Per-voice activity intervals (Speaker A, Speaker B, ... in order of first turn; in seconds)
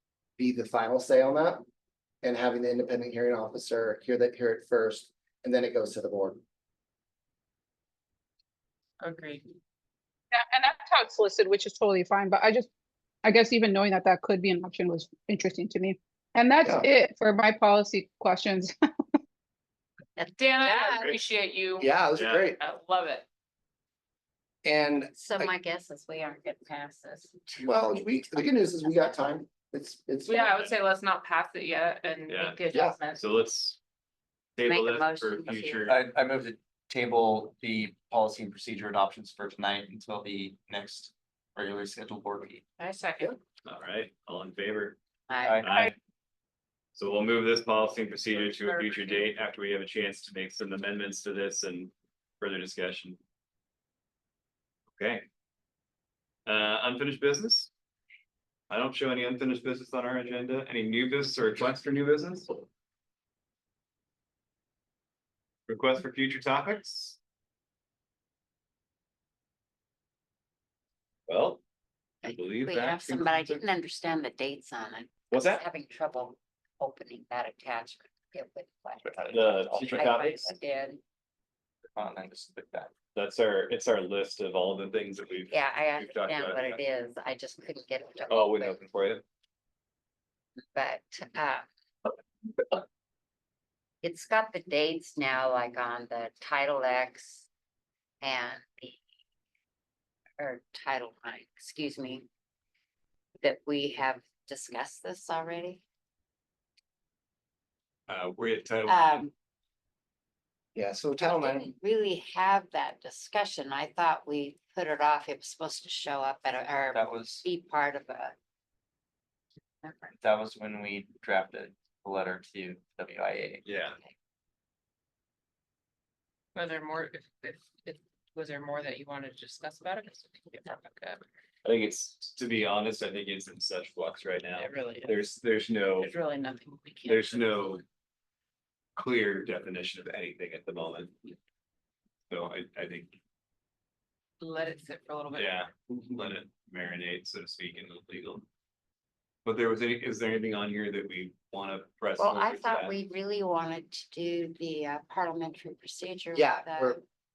Speaker A: 0.4-1.6, 2.2-6.4, 21.8-22.6, 24.6-25.5, 27.6-30.7, 32.7-33.0, 110.7-111.7, 156.3-157.0
Speaker B: 9.0-9.4, 20.3-21.9, 22.6-23.2, 30.2-33.2, 42.8-43.3, 48.3-49.2, 126.5-131.2, 134.6-135.2, 136.0-137.8, 144.4-145.6
Speaker C: 10.4-12.7, 13.2-18.7
Speaker D: 20.2-21.2, 25.2-29.1, 34.6-35.9, 45.3-45.6, 72.2-81.0, 85.5-88.8, 90.7-91.7, 94.0-97.5, 98.2-99.0, 100.4-102.3, 103.4-105.8, 108.9-109.3, 111.2-118.3, 119.8-120.1, 152.2-157.0
Speaker E: 22.1-22.4, 32.3-32.6, 33.1-33.8, 34.6-36.0, 43.6-45.0, 45.6-45.9, 47.0-53.2, 54.9-55.2, 56.5-57.7, 58.7-62.6, 65.7-67.2, 71.3-71.6, 72.2-73.6, 75.3-75.6, 79.3-80.5, 83.1-86.8, 88.3-89.2, 108.1-109.2, 123.6-124.0, 131.6-136.1, 137.1-137.8, 138.9-141.2, 142.3-143.2, 145.3-148.4, 149.4-153.0
Speaker F: 35.9-42.6, 45.4-45.7, 79.0-80.3, 81.9-82.9, 116.9-117.5, 120.2-123.6